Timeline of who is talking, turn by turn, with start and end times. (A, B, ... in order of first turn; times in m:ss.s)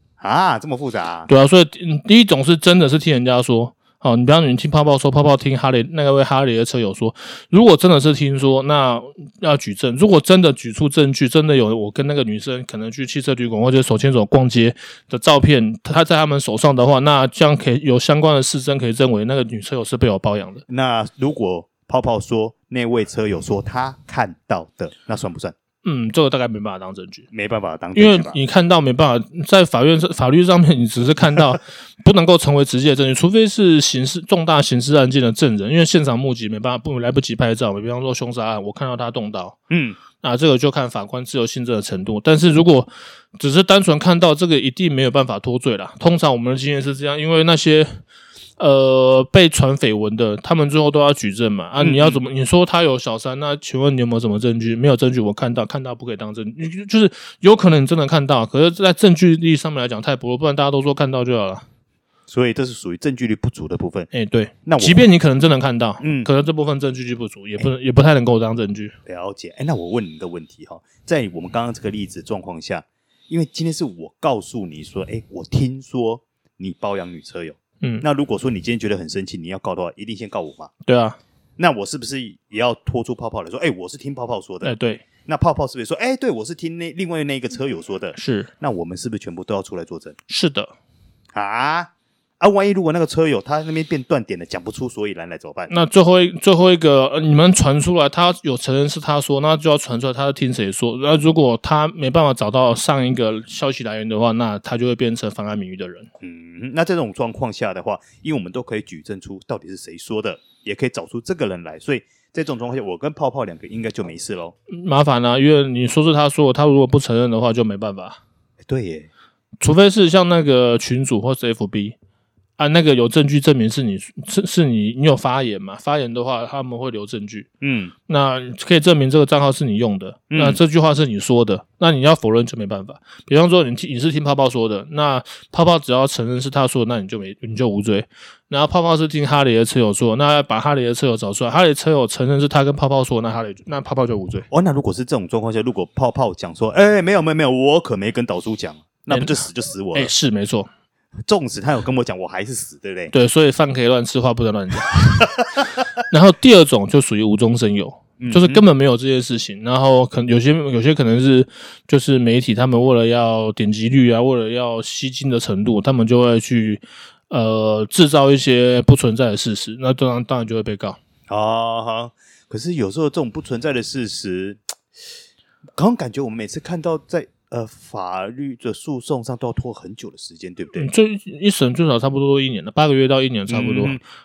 0:00.2-0:01.3 A
0:01.3-0:20.6 B
0:20.7-0:25.5 A
0:25.8-0:27.3 B
0:27.3-0:28.4 A
0:27.9-0:39.6 B
0:39.7-0:40.0 A
0:40.2-0:48.0 B
0:48.6-1:01.6 B
0:51.8-0:52.2 A
1:02.3-1:04.1 A
1:04.1-1:08.9 B
1:04.6-1:05.1 A
1:06.0-1:06.3 A
1:09.1-1:20.7 A
1:20.8-1:21.2 B
1:21.6-1:24.8 A
1:24.6-1:25.0 B
1:25.2-1:30.2 A
1:28.1-1:28.5 B
1:30.3-1:30.7 B
1:31.3-1:35.7 A
1:35.7-1:46.1 B
1:46.2-1:54.5 A
1:54.7-1:58.2 B
1:58.7-1:59.1 A
1:59.6-2:02.0 B
2:02.6-2:07.5 B
2:07.6-2:07.9 A
2:08.1-2:24.5 B
2:10.3-2:10.6 A
2:24.5-2:30.1 A
2:29.1-2:29.4 B
2:29.9-2:30.7 B
2:31.3-2:33.1 A
2:33.1-2:35.3 B
2:36.1-2:51.0 B
2:38.2-2:38.6 A
2:51.3-2:54.6 A
2:55.8-3:00.9 A
3:00.8-3:04.0 B
3:03.5-3:04.0 A